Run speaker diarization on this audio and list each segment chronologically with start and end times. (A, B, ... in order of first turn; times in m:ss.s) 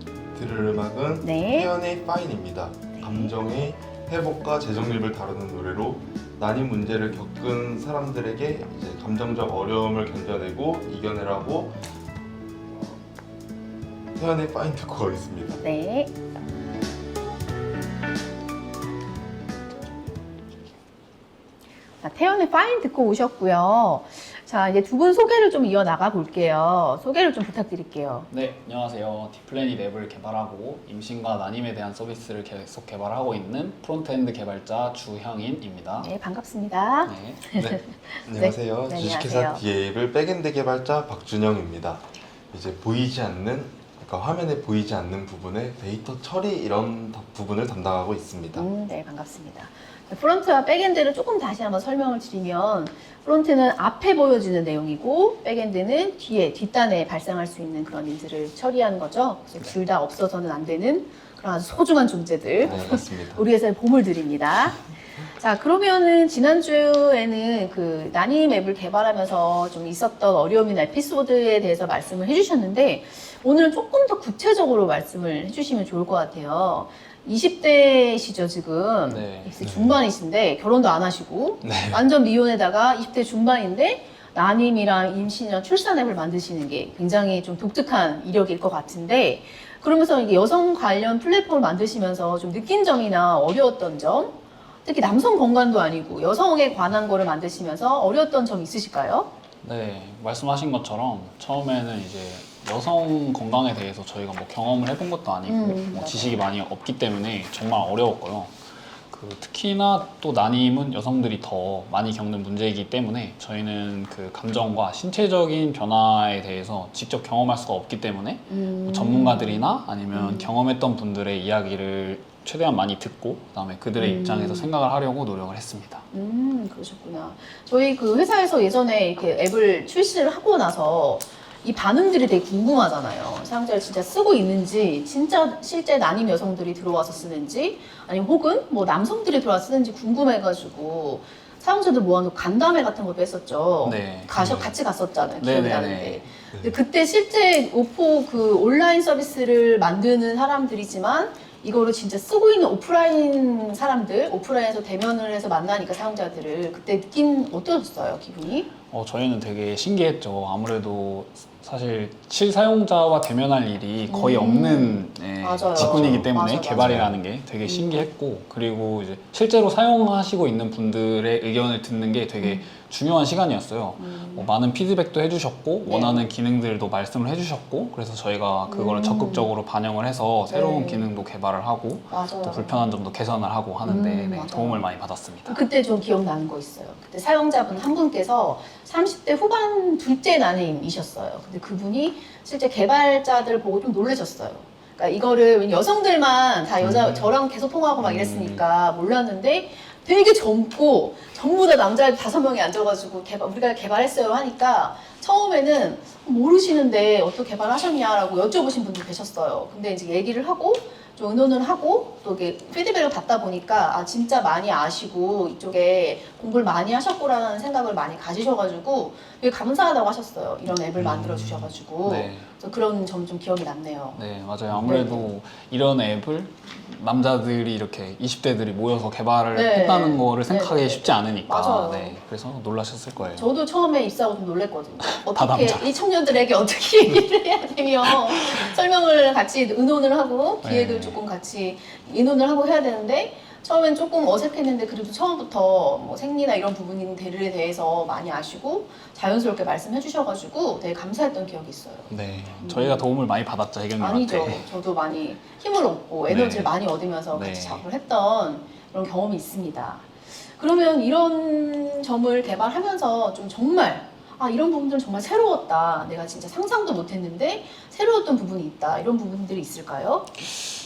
0:00.4-0:11.8 A
0:01.2-0:01.7 B
0:03.0-0:03.3 B
0:12.7-0:13.0 A
0:14.2-0:15.6 A
0:15.6-0:16.1 B
0:22.0-0:28.3 B
0:28.3-0:36.1 C
0:36.0-0:39.6 B
0:37.1-0:37.4 C
0:37.6-0:48.7 A
0:48.6-1:39.3 B
1:02.6-1:03.4 A
1:19.1-1:19.5 C
1:19.6-1:20.0 A
1:21.6-1:22.0 A
1:39.6-2:06.0 C
1:45.5-1:46.4 B
1:58.5-2:00.5 B
2:04.0-2:04.7 B
2:06.1-2:38.7 B
2:23.8-2:24.4 C
2:24.4-2:24.8 A
2:25.4-2:26.3 C
2:26.5-2:26.8 A
2:38.9-3:05.6 C
2:44.1-2:47.0 B
2:45.8-2:47.2 A
2:47.6-2:48.1 B
2:52.4-2:52.7 B
2:54.0-2:54.5 B
2:55.8-2:56.3 B
2:58.7-2:59.5 B
3:00.5-3:01.1 B
3:02.1-3:02.8 B
3:03.8-3:04.9 B
3:05.5-3:44.2 B
3:16.8-3:17.3 C
3:18.0-3:18.6 C
3:41.0-3:42.5 C
3:44.2-3:53.5 C
3:44.8-3:45.3 B
3:49.5-3:52.2 B
3:53.3-4:13.1 B
3:55.1-3:55.9 C
4:00.6-4:01.2 C
4:12.1-4:14.7 C
4:14.0-4:30.5 B
4:16.3-4:16.8 C
4:17.3-4:17.8 C